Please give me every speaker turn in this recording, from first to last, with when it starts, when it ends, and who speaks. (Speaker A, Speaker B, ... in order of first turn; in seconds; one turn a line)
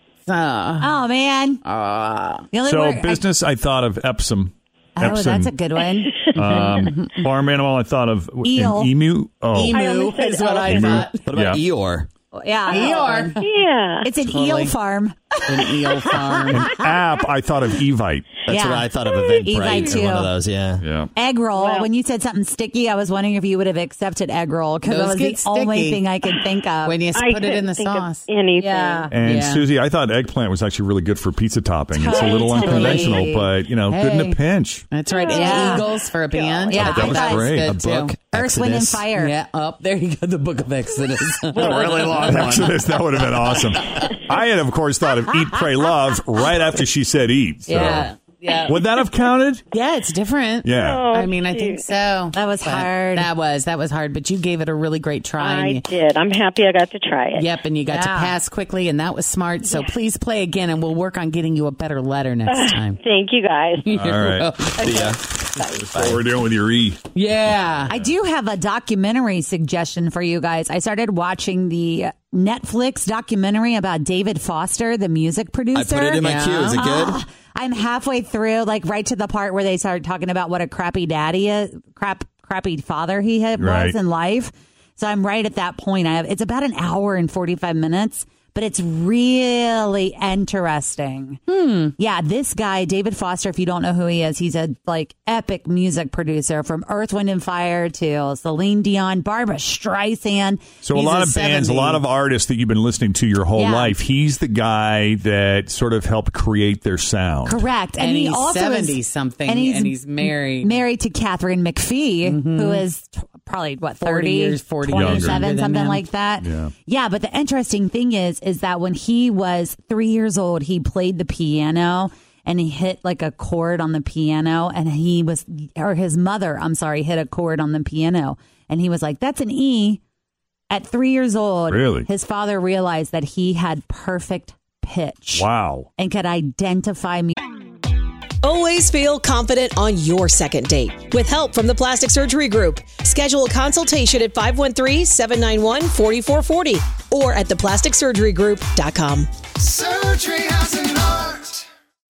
Speaker A: 0.2-1.0
Speaker B: 0.8-1.6
Speaker A: 1.6-2.5
Speaker B: 2.5-3.2
Speaker C: 2.6-5.5
Speaker B: 5.0-6.2
Speaker C: 6.3-9.8
Speaker A: 6.4-7.2
Speaker B: 8.4-8.9
Speaker A: 9.5-11.3
Speaker D: 9.7-11.1
Speaker C: 10.7-11.6
Speaker E: 11.3-12.1
Speaker B: 12.3-13.4
Speaker A: 12.7-13.5
Speaker D: 12.7-14.1
Speaker B: 14.0-16.5
Speaker A: 14.2-14.8
Speaker A: 15.5-16.8
Speaker C: 16.5-18.3
Speaker E: 18.5-20.8
Speaker B: 18.5-18.9
Speaker B: 19.4-20.3
Speaker C: 20.8-21.1
Speaker B: 21.1-27.0
Speaker D: 21.6-21.9
Speaker A: 24.9-26.0
Speaker A: 26.9-28.3
Speaker D: 27.1-29.1
Speaker B: 28.6-29.1
Speaker C: 29.1-34.9
Speaker A: 29.1-29.7
Speaker B: 31.9-33.5
Speaker A: 32.2-33.3
Speaker A: 33.9-34.4
Speaker A: 34.9-38.1
Speaker D: 35.1-37.1
Speaker B: 35.3-35.9
Speaker B: 36.7-37.5
Speaker C: 36.8-37.8
Speaker E: 37.6-39.1
Speaker B: 38.3-39.3
Speaker A: 39.1-42.6
Speaker D: 41.5-42.8
Speaker C: 41.5-48.1
Speaker A: 47.7-48.8
Speaker B: 47.7-48.5
Speaker C: 48.7-49.6
Speaker A: 49.7-55.8
Speaker C: 50.6-51.1
Speaker D: 50.8-51.9
Speaker B: 52.3-53.3
Speaker D: 55.4-57.5
Speaker A: 57.4-63.0
Speaker B: 57.9-58.3
Speaker D: 62.5-64.2
Speaker A: 63.9-65.6
Speaker C: 63.9-64.6
Speaker D: 64.8-65.8
Speaker E: 64.8-65.3
Speaker C: 65.8-67.0
Speaker E: 65.9-66.2
Speaker A: 67.1-68.0
Speaker C: 67.8-68.1
Speaker B: 67.9-91.4
Speaker E: 75.7-77.2
Speaker A: 76.2-76.9
Speaker C: 83.6-84.0
Speaker A: 91.5-92.0
Speaker B: 92.0-100.6
Speaker C: 100.8-107.7
Speaker A: 100.9-102.0
Speaker B: 103.5-104.0
Speaker B: 107.5-130.0
Speaker A: 108.0-110.8
Speaker A: 112.2-112.8
Speaker A: 114.0-116.0
Speaker C: 114.9-115.5
Speaker C: 116.4-116.7
Speaker B: 130.7-137.4
Speaker C: 131.7-132.1
Speaker C: 135.3-135.9
Speaker F: 138.4-149.9